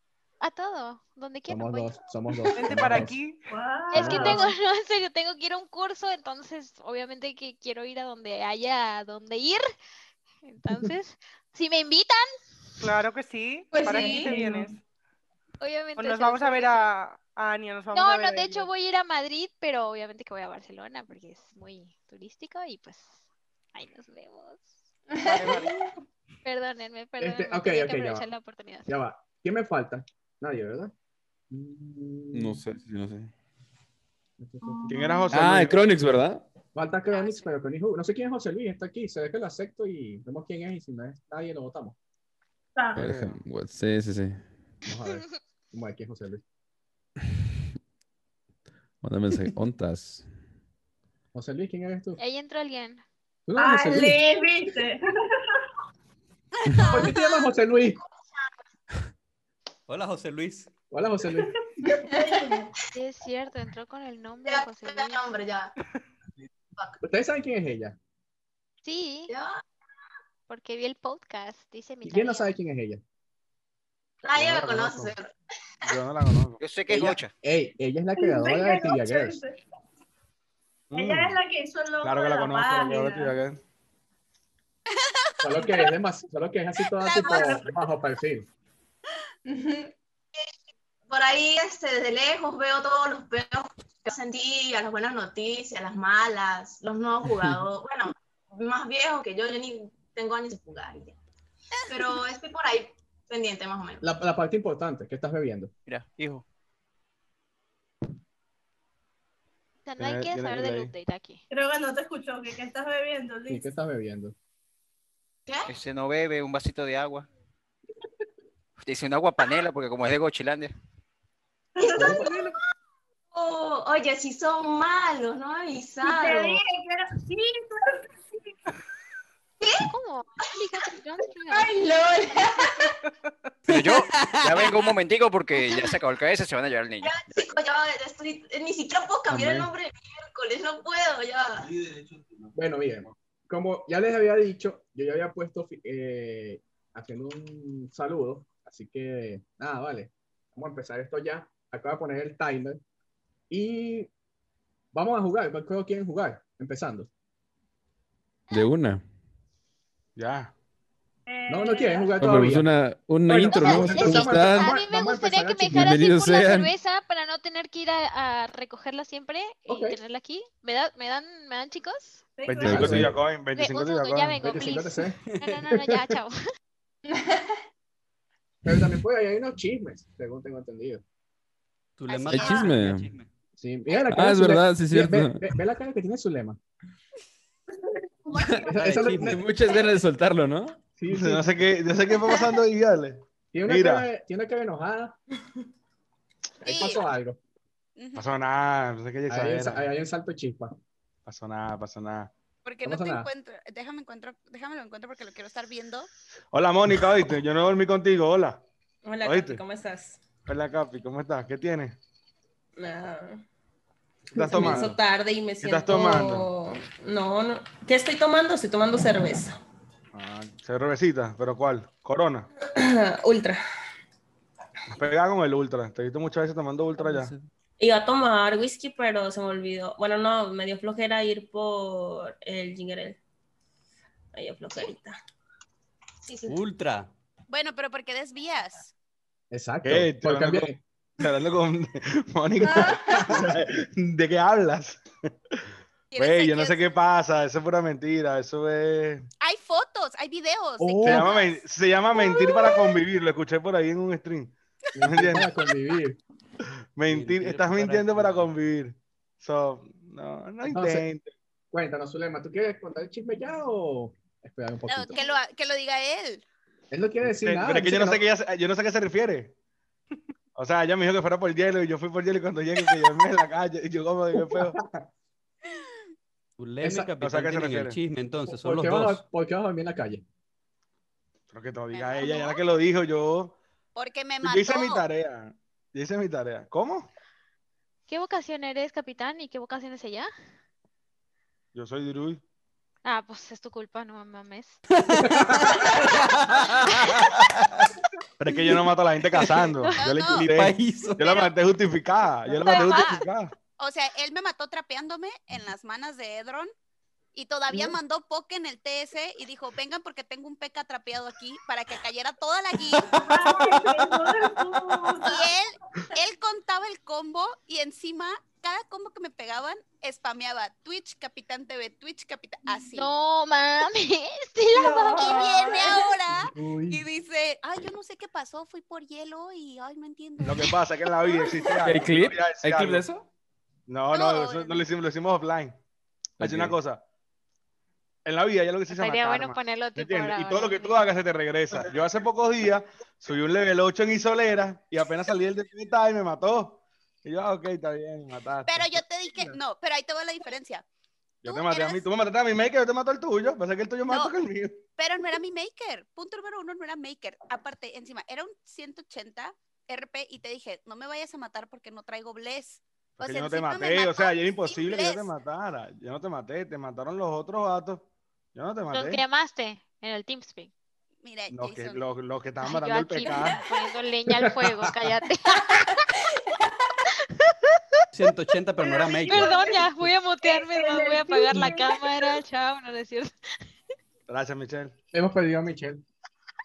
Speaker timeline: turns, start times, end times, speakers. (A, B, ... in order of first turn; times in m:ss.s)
0:00.4-0:01.9 A
0:01.5-0:03.2 B
0:02.5-0:03.4 C
0:03.5-0:04.5 D
0:03.9-0:09.6 A
0:04.0-0:04.4 B
0:10.4-0:12.3 A
0:12.8-0:14.8 C
0:13.7-0:14.5 E
0:13.9-0:14.7 D
0:15.6-0:16.9 A
0:16.0-0:18.7 C
0:17.9-0:23.2 A
0:23.7-0:24.7 A
0:25.1-0:25.6 E
0:25.2-0:25.7 C
0:26.4-0:28.9 A
0:27.2-0:28.3 B
0:28.9-0:30.9 B
0:31.5-0:32.6 B
0:32.3-0:33.3 F
0:34.4-0:35.6 B
0:34.6-0:35.4 D
0:34.9-0:35.8 G
0:35.3-0:36.4 F
0:36.7-0:42.0 B
0:37.1-0:37.5 A
0:42.8-0:43.0 D
0:42.9-0:43.4 G
0:42.9-0:44.4 F
0:44.8-0:46.4 B
0:49.0-0:50.3 F
0:51.3-0:52.2 B
0:52.2-0:53.0 A
0:53.5-0:54.2 B
0:53.6-0:55.6 D
0:56.6-0:57.2 H
0:56.9-0:58.0 B
0:59.9-1:00.7 I
1:00.9-1:01.6 B
1:01.4-1:02.7 D
1:01.8-1:02.7 E
1:02.9-1:05.2 A
1:04.5-1:05.7 E
1:07.0-1:08.0 B
1:08.8-1:09.3 A
1:10.5-1:12.5 A
1:12.0-1:13.0 B
1:14.2-1:15.3 E
1:14.3-1:15.2 G
1:15.8-1:16.6 G
1:16.6-1:17.3 J
1:16.9-1:19.4 B
1:18.2-1:19.6 D
1:20.9-1:21.4 G
1:20.9-1:23.4 D
1:22.0-1:23.6 G
1:25.0-1:25.4 H
1:25.4-1:28.5 B
1:27.0-1:27.7 D
1:29.5-1:29.9 E
1:31.1-1:41.2 E
1:37.3-1:37.6 B
1:41.8-1:42.2 H
1:41.9-1:44.0 E
1:44.0-1:45.7 B
1:45.8-1:46.4 J
1:49.8-1:51.4 A
1:50.0-1:50.9 G
1:51.5-1:53.7 D
1:53.5-1:54.3 B
1:55.7-1:57.3 J
1:58.8-2:00.7 J
2:01.8-2:02.5 D
2:01.8-2:02.4 E
2:01.9-2:02.5 B
2:03.3-2:06.6 E
2:06.0-2:08.0 D
2:09.6-2:09.8 E
2:09.8-2:11.7 A
2:11.5-2:12.9 E
2:13.7-2:17.1 J
2:14.1-2:14.9 I
2:17.0-2:21.7 E
2:19.3-2:19.7 F
2:22.5-2:32.8 B
2:33.5-2:34.1 B
2:34.9-2:37.1 B
2:38.5-2:39.0 F
2:40.2-2:40.5 G
2:41.3-2:42.2 D
2:41.5-2:42.7 B
2:42.2-2:44.7 F
2:43.2-2:46.0 B
2:43.5-2:52.2 A
2:45.7-2:46.7 F
2:49.7-2:50.0 B
2:52.4-2:52.9 D
2:52.5-2:54.4 G
2:52.6-2:53.2 B
2:52.7-2:53.1 F
2:53.5-2:56.4 A
2:54.4-2:55.2 B
2:57.0-2:57.5 E
2:58.6-3:01.0 B
3:02.0-3:03.3 I
3:02.3-3:03.1 F
3:03.6-3:06.6 B
3:04.1-3:05.6 F
3:08.2-3:09.0 D
3:08.4-3:10.8 F
3:08.6-3:09.4 B
3:08.8-3:09.4 I
3:11.0-3:11.6 B
3:11.1-3:14.1 G
3:13.5-3:15.2 B
3:16.6-3:17.4 B
3:16.6-3:17.1 H
3:18.0-3:18.3 H
3:18.1-3:19.8 G
3:19.3-3:20.7 B
3:21.2-3:22.3 G
3:22.6-3:26.1 H
3:22.8-3:23.3 B
3:26.5-3:28.6 G
3:29.0-3:30.2 K
3:29.2-3:29.6 G
3:30.4-3:32.0 G
3:32.8-3:33.4 K
3:34.3-3:35.0 G
3:34.4-3:34.8 B
3:34.6-3:39.6 K
3:35.6-3:36.5 G
3:40.1-3:42.5 G
3:42.6-3:43.6 K
3:44.9-3:47.3 G
3:47.0-3:47.4 F
3:47.8-3:53.2 K
3:54.3-3:55.2 K
3:56.3-3:56.6 E
3:56.4-3:57.1 I
3:57.5-3:58.9 H
3:59.5-4:00.7 B
3:59.8-4:05.0 G
4:02.6-4:03.3 E
4:06.1-4:06.8 H
4:06.2-4:09.3 G
4:09.4-4:11.6 H
4:10.8-4:11.4 B
4:11.0-4:15.5 G
4:12.1-4:12.8 H
4:15.0-4:16.2 B
4:17.0-4:21.3 G
4:17.1-4:18.5 I
4:20.7-4:21.0 B
4:21.7-4:25.2 B
4:24.8-4:26.4 H
4:26.9-4:28.2 B
4:27.2-4:29.5 G
4:30.5-4:34.8 G
4:34.3-4:35.0 B
4:36.6-4:39.2 I
4:36.8-4:37.1 B
4:37.2-4:38.0 G
4:38.5-4:40.2 B
4:41.5-4:43.6 G
4:41.9-4:42.6 H
4:43.9-4:45.0 H
4:44.4-4:47.1 G
4:48.1-4:50.3 A
4:51.7-4:52.4 G
4:53.0-4:54.8 A
4:55.0-4:57.9 I
4:55.3-4:55.7 B
4:58.4-5:03.5 G
5:00.0-5:00.5 H
5:00.3-5:01.5 I
5:02.6-5:03.2 H
5:02.6-5:03.2 A
5:03.8-5:06.7 H
5:07.3-5:13.5 H
5:13.2-5:15.5 D
5:15.2-5:23.1 H
5:22.9-5:25.3 A
5:24.8-5:26.0 D
5:25.1-5:31.7 H
5:26.5-5:27.0 B
5:30.4-5:33.1 G
5:31.8-5:33.2 F
5:33.9-5:35.8 G
5:34.1-5:34.9 H
5:36.4-5:36.8 F
5:36.4-5:37.0 G
5:38.2-5:49.6 G
5:38.9-5:41.0 A
5:48.6-5:50.8 H
5:51.4-5:54.8 G
5:51.4-5:52.1 H
5:54.1-5:54.3 H
5:55.0-6:05.3 H
6:03.2-6:09.2 G
6:08.9-6:10.7 A
6:11.2-6:12.0 H
6:11.5-6:13.6 G
6:12.6-6:15.9 A
6:14.3-6:14.8 B
6:18.1-6:19.6 I
6:18.8-6:19.9 D
6:19.3-6:23.3 A
6:20.4-6:22.2 D
6:24.3-6:24.9 G
6:25.1-6:26.0 B